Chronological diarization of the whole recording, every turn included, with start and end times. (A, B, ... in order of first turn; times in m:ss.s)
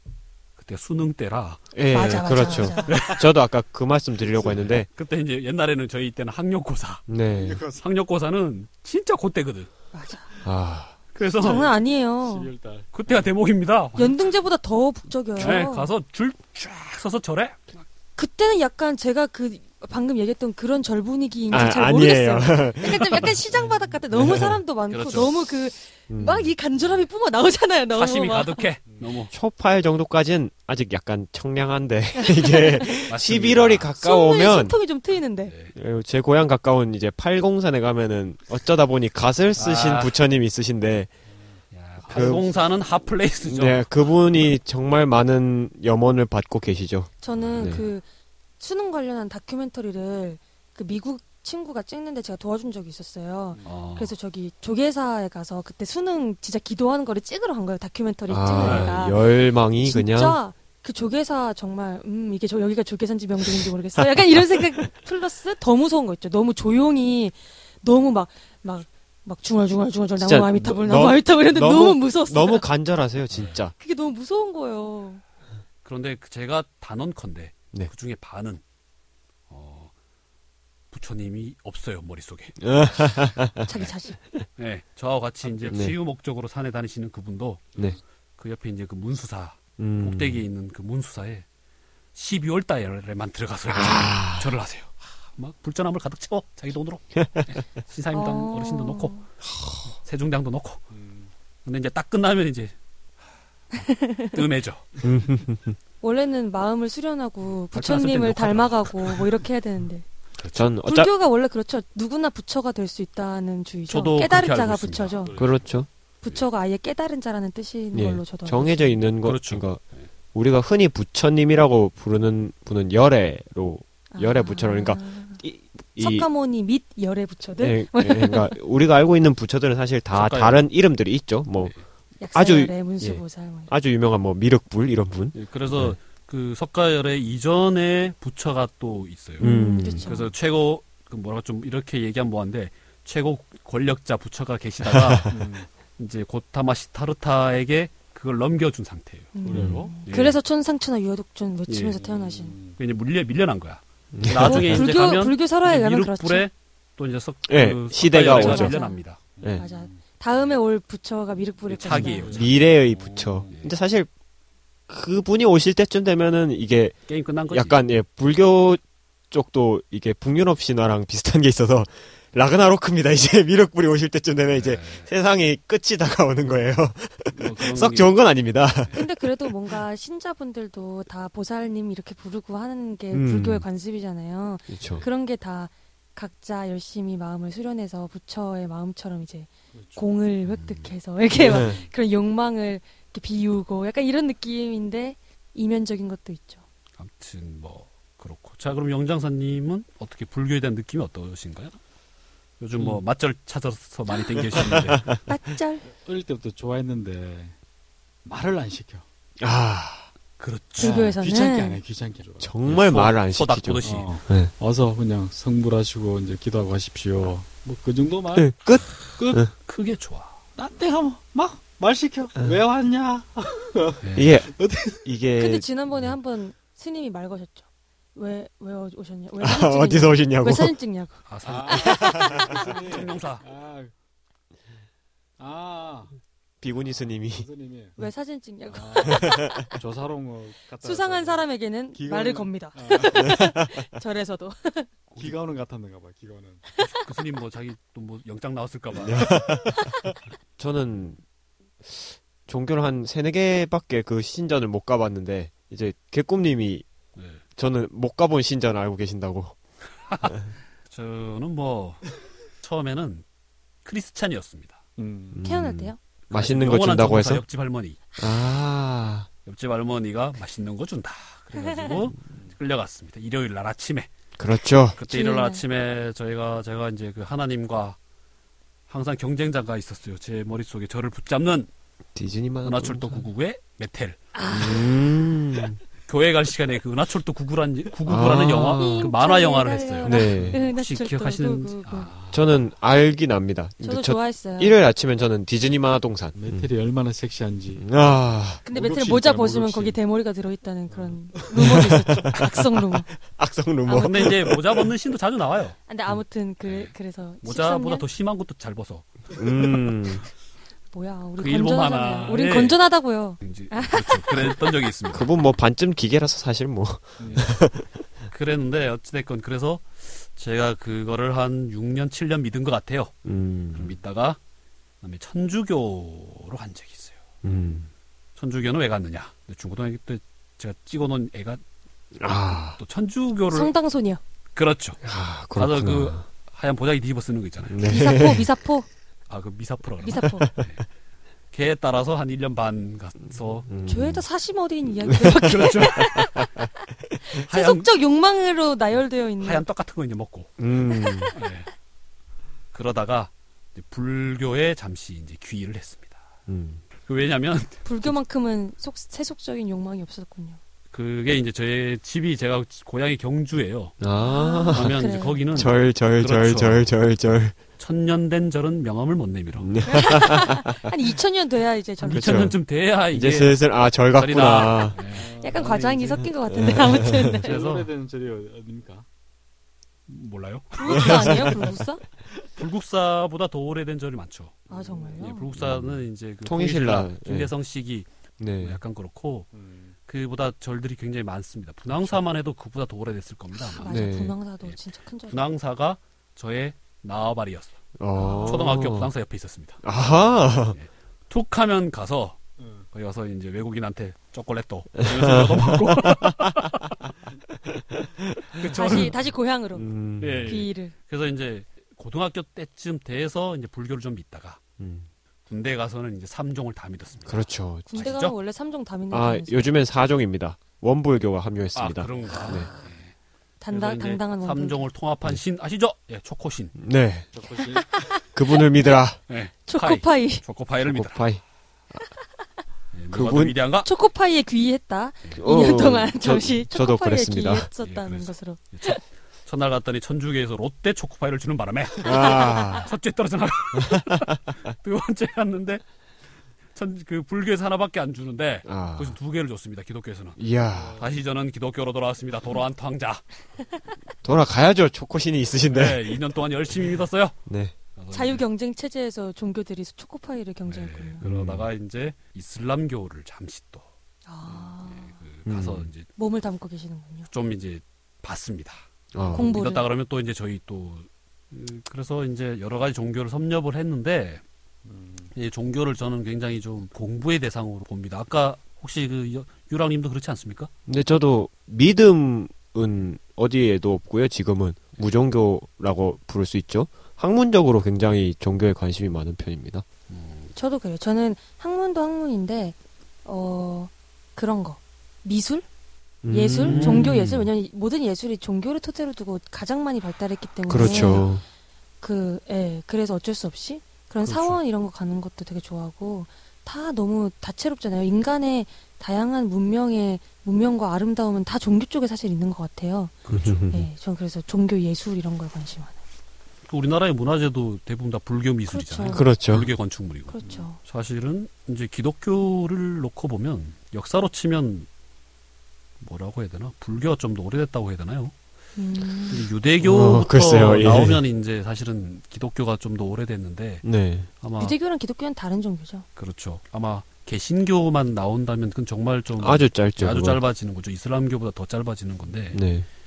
0:00.6-0:01.7 A
0:01.7-0:04.9 B
0:01.9-0:03.0 C
0:02.8-0:03.2 A
0:04.4-0:04.8 D
0:04.7-0:07.0 A
0:07.1-0:07.6 B
0:07.3-0:07.8 D
0:07.8-0:09.7 A
0:09.9-0:10.4 C
0:10.4-0:11.0 B
0:11.1-0:11.7 A
0:11.3-0:12.5 C
0:12.2-0:13.3 D
0:12.9-0:14.2 A
0:14.0-0:15.9 C
0:15.4-0:17.8 A
0:18.2-0:28.7 C
0:21.5-0:23.4 B
0:24.1-0:24.6 B
0:24.9-0:25.3 A
0:26.1-0:26.5 B
0:27.9-0:29.3 A
0:28.9-0:29.1 D
0:29.3-0:34.8 B
0:32.2-0:33.1 C
0:33.1-0:33.9 A
0:34.0-0:35.5 C
0:35.5-0:35.7 A
0:35.7-0:41.1 B
0:39.6-0:40.1 A
0:41.3-0:42.6 D
0:41.7-0:43.9 A
0:42.1-0:42.5 B
0:43.4-0:47.8 B
0:47.2-0:48.0 C
0:47.4-0:47.8 A
0:48.6-1:12.6 C
0:53.6-0:54.1 A
0:58.3-1:00.4 B
0:58.6-0:59.0 A
1:10.2-1:13.7 B
1:13.3-1:13.6 A
1:13.8-1:15.2 C
1:15.8-1:18.6 A
1:19.5-1:19.9 A
1:20.9-1:22.8 A
1:22.6-1:23.7 B
1:23.6-1:24.2 C
1:24.6-1:27.7 A
1:25.7-1:25.9 B
1:28.4-1:31.4 A
1:29.8-1:30.4 B
1:32.1-1:39.1 A
1:33.7-1:34.5 B
1:37.2-1:37.5 B
1:38.1-1:39.2 C
1:39.5-1:39.8 B
1:40.0-1:40.8 A
1:40.9-1:41.3 D
1:41.6-1:42.7 A
1:43.7-1:44.4 C
1:44.3-1:44.9 A
1:45.0-1:45.8 B
1:46.0-1:50.0 C
1:47.7-1:49.3 A
1:50.4-1:50.7 A
1:50.5-1:51.1 B
1:50.8-1:55.3 C
1:53.9-1:55.5 A
1:55.2-1:55.6 D
1:55.4-1:55.9 B
1:56.2-1:59.0 C
1:57.9-1:59.8 B
1:59.2-1:59.6 A
2:00.3-2:06.3 B
2:04.1-2:05.4 C
2:06.0-2:08.5 C
2:07.6-2:11.7 B
2:10.1-2:10.6 A
2:12.2-2:13.7 C
2:12.3-2:16.0 B
2:15.3-2:25.4 A
2:19.4-2:20.1 B
2:19.4-2:20.3 C
2:24.8-2:25.4 B
2:25.3-2:25.7 D
2:26.0-2:29.3 A
2:29.3-2:32.6 C
2:29.4-2:30.0 D
2:29.5-2:29.8 B
2:30.0-2:30.4 A
2:31.7-2:32.0 A
2:32.0-2:32.8 D
2:32.8-2:39.2 A
2:34.1-2:34.9 B
2:34.4-2:36.5 C
2:37.5-2:38.8 B
2:38.2-2:39.0 C
2:39.4-2:40.0 D
2:39.5-2:42.4 C
2:41.7-2:42.6 A
2:41.9-2:43.5 D
2:41.9-2:44.1 B
2:44.9-2:47.0 B
2:47.1-2:47.8 A
2:47.5-2:59.7 B
2:54.5-2:55.1 A
2:57.4-2:58.2 A
2:58.9-3:16.6 C
3:03.1-3:03.6 B
3:04.7-3:05.0 B
3:09.7-3:10.0 D
3:10.5-3:10.9 A
3:11.4-3:11.9 D
3:11.4-3:11.8 B
3:17.0-3:21.8 A
3:22.6-3:25.1 A
3:24.5-3:25.2 B
3:25.3-3:25.9 C
3:25.9-3:27.6 D
3:28.2-3:29.0 D
3:29.4-3:30.1 B
3:30.4-3:31.1 A
3:30.8-3:32.6 D
3:30.8-3:31.8 C
3:32.4-3:34.5 B
3:32.6-3:34.2 A
3:33.8-3:39.4 D
3:38.3-3:39.5 B
3:39.6-3:40.4 A
3:40.6-3:45.1 D
3:44.0-3:44.3 A
3:44.1-3:45.6 B
3:45.4-3:52.4 C
3:49.4-3:50.8 B
3:51.3-3:53.4 A
3:51.4-3:53.9 D
3:52.0-3:52.5 B
3:55.4-3:56.1 D
3:56.6-3:57.5 B
3:56.7-3:58.0 D
3:58.0-3:59.7 C
3:58.7-4:03.4 D
3:59.1-3:59.6 B
4:00.8-4:04.9 C
4:03.1-4:03.8 B
4:05.1-4:06.6 D
4:06.7-4:07.0 C
4:06.8-4:09.5 A
4:09.0-4:10.0 B
4:09.7-4:10.0 C
4:10.6-4:11.2 B
4:11.8-4:16.8 B
4:17.6-4:19.5 B
4:20.1-4:23.2 A
4:23.8-4:24.8 A
4:25.0-4:25.4 D
4:25.3-4:27.4 B
4:25.4-4:26.0 C
4:26.3-4:28.0 A
4:28.2-4:29.3 B
4:29.4-4:34.1 A
4:34.4-4:35.0 B
4:35.0-4:38.0 A
4:35.1-4:35.6 C
4:38.9-4:41.7 A
4:42.1-4:43.3 B
4:42.6-4:44.2 A
4:44.3-4:45.0 C
4:44.5-4:45.8 B
4:46.0-4:52.1 A
4:48.1-4:49.1 B
4:48.6-4:52.1 C
4:50.0-4:50.6 B
4:52.0-4:52.6 D
4:52.3-4:56.7 B
4:53.8-4:54.8 C
4:56.3-5:00.0 D
4:57.8-4:58.6 B
4:58.6-5:03.1 C
5:00.9-5:01.9 D
5:01.6-5:04.9 B
5:03.8-5:04.3 C
5:03.9-5:05.8 A
5:05.9-5:08.0 C
5:06.6-5:06.9 A
5:07.4-5:09.1 A
5:09.3-5:10.2 B
5:10.9-5:14.7 C
5:11.4-5:12.8 A
5:13.4-5:15.3 A
5:15.1-5:17.9 B
5:17.2-5:17.5 D
5:18.3-5:23.1 A
5:23.2-5:23.9 B
5:23.7-5:24.4 A
5:25.0-5:27.2 A
5:27.4-5:27.9 B
5:28.4-5:31.6 A
5:32.2-5:32.8 B
5:32.7-5:33.7 A
5:33.5-5:34.2 C
5:34.5-5:35.0 A
5:35.0-5:36.2 B
5:35.5-5:38.0 A
5:37.6-5:38.5 B
5:37.8-5:38.9 C
5:39.3-5:40.8 A
5:40.0-5:40.5 C
5:41.5-5:43.7 A
5:43.7-5:44.2 B
5:43.8-5:46.7 C
5:45.1-5:45.4 B
5:45.2-5:46.3 A
5:47.2-5:49.6 C
5:47.5-5:47.9 A
5:49.4-5:50.6 A
5:50.6-5:51.3 B
5:51.0-5:51.3 C
5:51.3-5:51.7 A
5:52.7-5:56.2 A
5:56.5-5:56.8 B
5:57.0-5:58.1 A
5:57.8-6:00.6 C
6:00.9-6:04.0 A
6:04.0-6:07.5 B
6:04.2-6:05.4 C
6:04.7-6:06.9 A
6:07.8-6:09.8 A
6:09.6-6:10.8 B
6:09.8-6:12.5 C
6:12.0-6:16.3 A
6:12.1-6:12.6 B
6:13.1-6:15.0 B
6:15.0-6:16.0 D
6:15.4-6:17.5 C
6:16.5-6:17.4 B
6:17.3-6:19.0 D
6:17.4-6:17.9 A
6:20.1-6:21.4 A
6:20.7-6:22.0 C
6:20.9-6:21.6 B
6:22.6-6:24.6 A
6:24.7-6:25.2 D
6:24.7-6:25.5 C
6:25.2-6:28.1 A
6:25.6-6:27.5 B
6:28.4-6:28.8 B
6:28.6-6:29.5 A
6:29.5-6:30.0 D
6:30.1-6:34.0 A
6:31.9-6:32.2 B
6:33.6-6:35.4 C
6:33.8-6:34.4 B
6:35.3-6:37.8 A
6:38.0-6:39.1 B
6:38.2-6:38.7 C
6:38.4-6:39.8 A
6:39.8-6:40.8 B
6:40.7-6:42.4 A
6:42.6-6:42.8 D
6:42.9-6:47.1 A
6:45.0-6:46.6 B
6:47.6-6:49.1 B
6:48.5-6:49.2 A
6:48.6-6:49.9 C
6:49.7-6:50.6 B
6:50.2-6:54.6 A
6:50.4-6:50.9 C
6:54.8-6:55.1 B
6:55.5-6:58.3 A
6:57.2-6:57.9 B
6:57.9-6:59.8 C
6:59.1-7:02.7 B
7:01.7-7:03.1 A
7:03.6-7:04.8 C
7:03.7-7:06.7 A
7:06.8-7:07.2 B
7:07.3-7:08.0 D
7:07.7-7:08.6 C
7:08.3-7:09.2 B
7:09.3-7:11.2 A
7:09.7-7:10.4 C
7:10.8-7:11.4 B
7:12.9-7:13.9 A
7:13.1-7:13.6 B
7:13.8-7:19.0 C
7:15.4-7:17.7 B
7:17.8-7:25.8 A
7:22.0-7:22.9 B
7:22.1-7:22.8 C
7:23.7-7:24.4 B
7:26.7-7:30.4 A
7:28.6-7:29.2 B
7:30.4-7:31.0 B
7:30.7-7:31.2 D
7:31.0-7:33.2 A
7:34.2-7:36.2 B
7:35.7-7:37.4 A
7:37.5-7:37.7 B
7:38.0-7:38.4 A
7:38.1-7:41.2 C
7:40.6-7:43.8 A
7:41.2-7:41.7 B
7:44.2-7:45.1 C
7:44.7-7:46.1 A
7:45.4-7:45.9 B
7:46.2-7:47.3 C
7:47.3-7:48.8 A
7:49.1-7:49.6 B
7:49.3-7:49.9 C
7:49.3-7:54.4 A
7:54.8-7:55.3 D
7:55.3-8:00.7 A
8:00.9-8:09.8 B
8:10.1-8:10.5 A
8:10.5-8:15.6 C
8:16.2-8:17.5 B
8:16.3-8:21.3 C
8:16.6-8:17.2 A
8:20.7-8:21.4 B
8:22.0-8:33.2 C
8:24.2-8:24.6 A
8:33.2-8:33.7 A
8:33.3-8:33.9 B
8:33.7-8:36.0 C
8:36.7-8:44.9 A
8:38.7-8:39.2 C
8:39.1-8:39.7 B
8:40.3-8:40.8 C
8:40.4-8:40.7 D
8:46.0-8:48.3 A
8:48.8-8:49.5 C
8:49.3-8:53.8 A
8:49.8-8:51.2 B
8:53.8-8:54.3 B
8:54.4-8:54.8 A
8:54.6-8:56.0 C
8:56.2-9:02.6 A
8:59.4-9:00.4 B
9:02.5-9:02.9 B